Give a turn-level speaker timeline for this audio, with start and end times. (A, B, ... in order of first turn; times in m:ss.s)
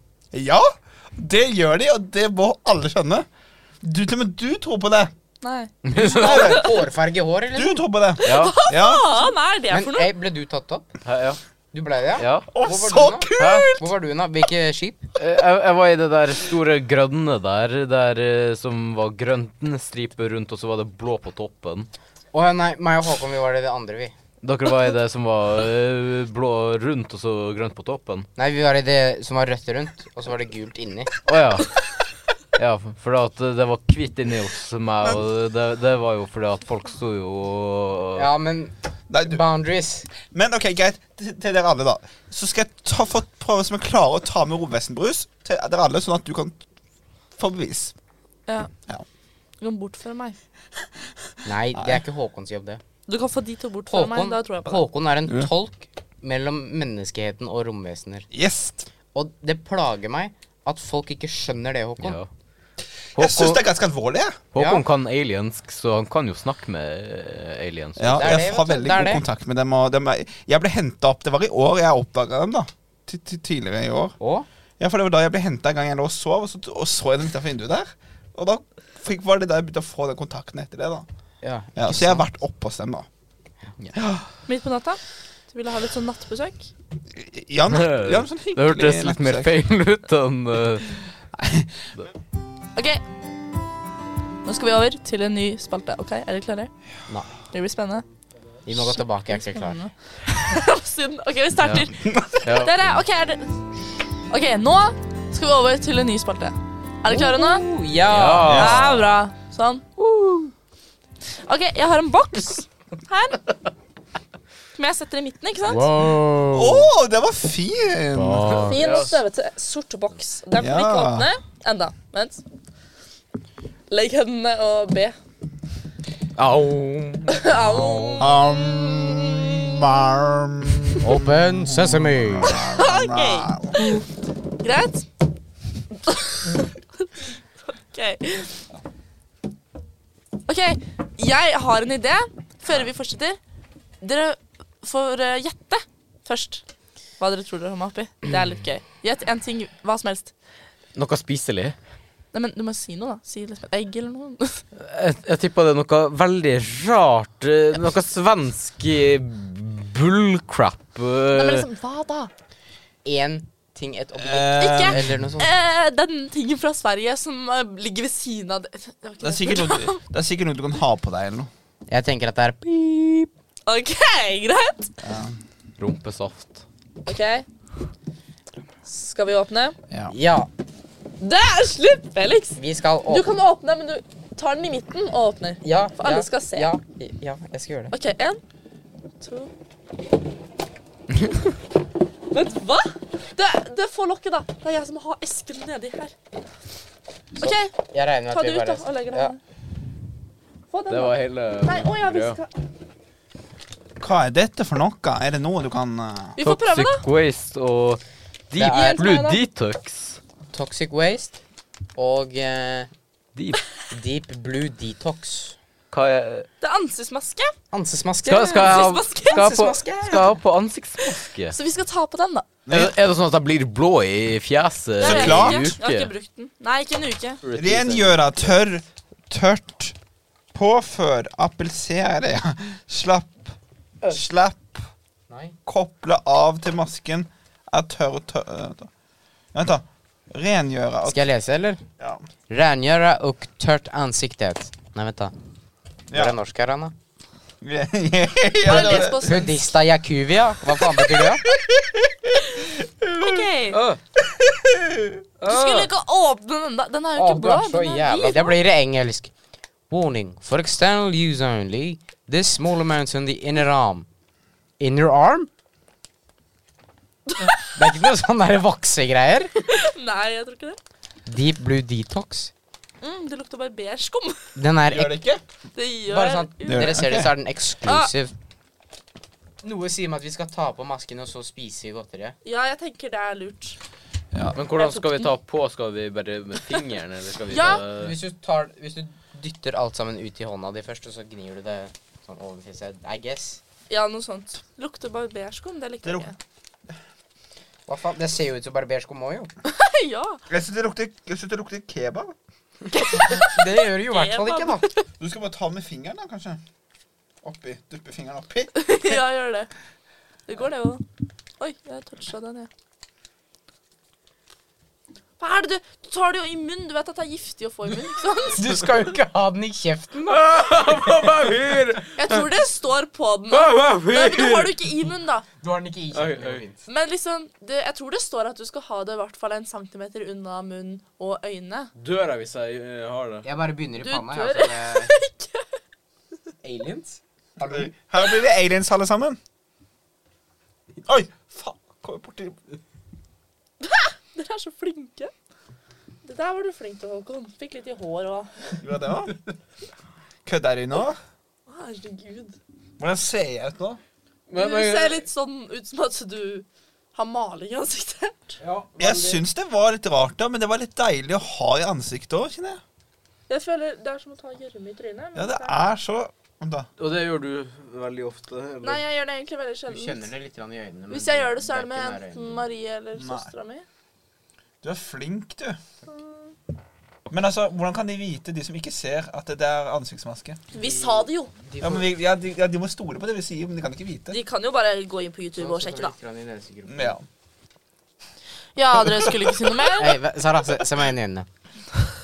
0:00.3-0:03.3 A
0:03.8-0:05.1 A
0:05.4-0:06.7 B
0:05.9-0:06.5 C
0:06.0-0:06.7 A
0:06.0-0:07.8 D
0:07.5-0:09.3 A
0:08.2-0:10.1 B
0:08.2-0:08.6 C
0:09.7-0:10.9 D
0:11.0-0:11.4 C
0:11.7-0:15.0 D
0:12.2-0:12.5 C
0:12.5-0:13.8 A
0:13.4-0:13.8 C
0:15.2-0:21.9 C
0:22.3-0:24.1 D
0:24.4-0:28.3 C
0:28.4-0:31.1 D
0:31.3-0:31.7 C
0:32.6-0:38.3 C
0:38.2-0:40.1 D
0:39.1-0:39.4 A
0:40.2-0:46.6 A
0:47.4-0:47.9 A
0:49.6-0:50.4 B
0:51.4-0:52.8 D
0:51.8-0:52.0 A
0:53.1-0:54.8 B
0:53.9-0:58.3 D
0:58.3-0:58.9 A
0:59.1-1:02.2 D
1:02.0-1:02.3 C
1:03.2-1:04.4 A
1:03.2-1:03.6 C
1:04.5-1:08.4 C
1:04.6-1:04.8 D
1:08.0-1:14.2 A
1:08.2-1:09.2 D
1:14.2-1:14.5 D
1:14.8-1:21.0 A
1:21.4-1:22.2 D
1:21.8-1:23.1 A
1:23.9-1:24.3 A
1:24.5-1:25.0 B
1:25.5-1:26.7 B
1:27.1-1:29.5 A
1:27.7-1:31.0 C
1:31.3-1:31.9 A
1:32.8-1:33.0 B
1:34.4-1:36.7 B
1:37.5-1:38.0 B
1:38.6-1:39.8 D
1:39.5-1:43.7 B
1:41.6-1:41.9 C
1:42.0-1:42.4 A
1:42.4-1:42.9 C
1:44.3-1:47.6 B
1:47.1-1:48.7 D
1:48.1-1:49.2 C
1:48.4-1:48.8 A
1:48.5-1:49.8 B
1:50.0-1:50.5 C
1:51.4-1:53.5 B
1:54.8-1:55.9 B
1:55.7-1:56.9 D
1:56.5-1:58.7 A
1:58.2-1:58.7 D
1:58.3-1:59.2 C
1:58.6-2:02.4 B
2:00.5-2:01.3 A
2:03.9-2:05.2 B
2:06.4-2:07.5 C
2:07.3-2:08.4 B
2:07.9-2:08.2 D
2:08.2-2:13.8 A
2:11.0-2:12.7 D
2:12.6-2:14.0 B
2:14.6-2:15.1 B
2:16.0-2:17.1 B
2:17.7-2:18.6 B
2:20.5-2:23.4 B
2:24.0-2:26.6 B
2:27.2-2:30.3 B
2:31.0-2:31.8 C
2:32.3-2:34.6 B
2:34.8-2:41.7 C
2:41.3-2:42.3 B
2:43.0-2:45.5 D
2:44.2-2:45.1 A
2:44.6-2:50.0 B
2:49.2-2:51.5 A
2:51.9-2:53.3 D
2:53.7-2:54.9 B
2:55.0-2:55.4 A
2:55.8-2:56.6 C
2:57.1-2:57.5 B
2:58.9-2:59.8 B
3:00.1-3:00.5 D
3:01.2-3:06.7 B
3:02.6-3:03.3 D
3:05.6-3:07.9 D
3:07.9-3:08.4 B
3:09.2-3:09.5 B
3:12.3-3:16.1 B
3:17.4-3:17.7 B
3:17.4-3:19.4 D
3:18.3-3:19.4 B
3:20.7-3:22.5 B
3:20.9-3:22.4 C
3:24.0-3:26.4 A
3:26.4-3:27.0 B
3:26.4-3:30.2 C
3:28.6-3:29.0 D
3:28.6-3:29.4 B
3:30.5-3:31.4 D
3:32.0-3:32.9 D
3:33.4-3:33.6 C
3:33.9-3:35.6 D
3:35.9-3:36.5 C
3:36.6-3:37.6 B
3:37.7-3:40.3 D
3:38.2-3:41.6 C
3:38.6-3:39.5 B
3:41.5-3:42.5 B
3:42.7-3:43.0 A
3:42.7-3:46.1 C
3:45.0-3:47.4 B
3:45.0-3:45.7 A
3:47.4-3:48.2 C
3:47.6-3:50.0 A
3:50.5-3:53.5 A
3:54.0-3:54.8 A
3:55.3-3:55.6 D
3:55.7-3:58.9 A
3:59.5-4:01.2 A
4:01.1-4:01.8 D
4:02.5-4:05.3 D
4:06.1-4:06.4 A
4:06.1-4:06.9 D
4:07.6-4:09.4 A
4:08.6-4:09.7 B
4:09.2-4:11.5 D
4:11.0-4:13.4 A
4:12.7-4:13.8 B
4:13.7-4:14.0 C
4:14.3-4:15.2 A
4:15.4-4:15.9 C
4:15.5-4:18.6 B
4:17.2-4:19.3 D
4:19.9-4:24.1 D
4:24.8-4:25.5 D
4:27.7-4:29.5 D
4:29.7-4:30.8 B
4:31.3-4:32.5 D
4:33.0-4:34.4 B
4:34.6-4:35.2 D
4:34.9-4:35.4 A
4:35.8-4:37.0 B
4:36.1-4:38.3 D
4:36.7-4:37.3 A
4:37.9-4:38.1 B
4:39.6-4:42.4 D
4:42.4-4:43.8 B
4:44.3-4:44.6 A
4:44.6-4:48.2 C
4:44.8-4:45.3 B
4:47.5-4:47.8 B
4:47.9-4:53.6 D
4:53.9-4:56.4 B
4:56.0-4:56.3 A
4:57.9-4:59.5 D
4:59.7-5:00.4 B
5:00.5-5:02.4 A
5:03.1-5:05.0 B
5:03.1-5:04.9 D
5:05.2-5:06.6 A
5:07.4-5:09.1 A
5:08.8-5:09.7 B
5:10.5-5:11.0 B
5:11.6-5:12.7 B
5:15.4-5:18.8 B
5:18.5-5:20.5 D
5:20.3-5:22.5 C
5:22.2-5:25.5 B
5:23.5-5:25.0 C
5:25.6-5:26.8 D
5:26.1-5:26.6 C
5:26.9-5:31.9 B
5:32.0-5:33.5 C
5:33.4-5:35.1 D
5:34.0-5:35.7 B
5:36.6-5:37.9 D
5:37.6-5:39.4 A
5:41.0-5:42.6 A
5:43.8-5:45.3 B
5:46.2-5:48.7 B
5:48.8-5:49.3 A
5:50.4-5:51.2 A
5:51.7-5:52.6 B
5:53.0-5:54.0 A
5:54.5-5:55.3 C
5:54.6-5:58.6 B
5:58.6-5:59.4 C
5:59.0-6:02.8 A
6:03.5-6:05.8 B
6:05.4-6:06.9 A
6:07.0-6:09.0 C
6:08.8-6:10.3 B
6:09.9-6:12.6 D
6:11.1-6:13.8 B
6:13.2-6:13.5 A
6:14.8-6:15.8 A
6:16.1-6:16.5 B
6:17.3-6:20.6 A
6:20.7-6:21.5 B
6:20.7-6:22.0 D
6:21.8-6:24.4 A
6:24.3-6:26.2 B
6:25.6-6:27.2 D
6:26.9-6:27.2 A
6:28.8-6:30.2 B
6:30.0-6:31.5 D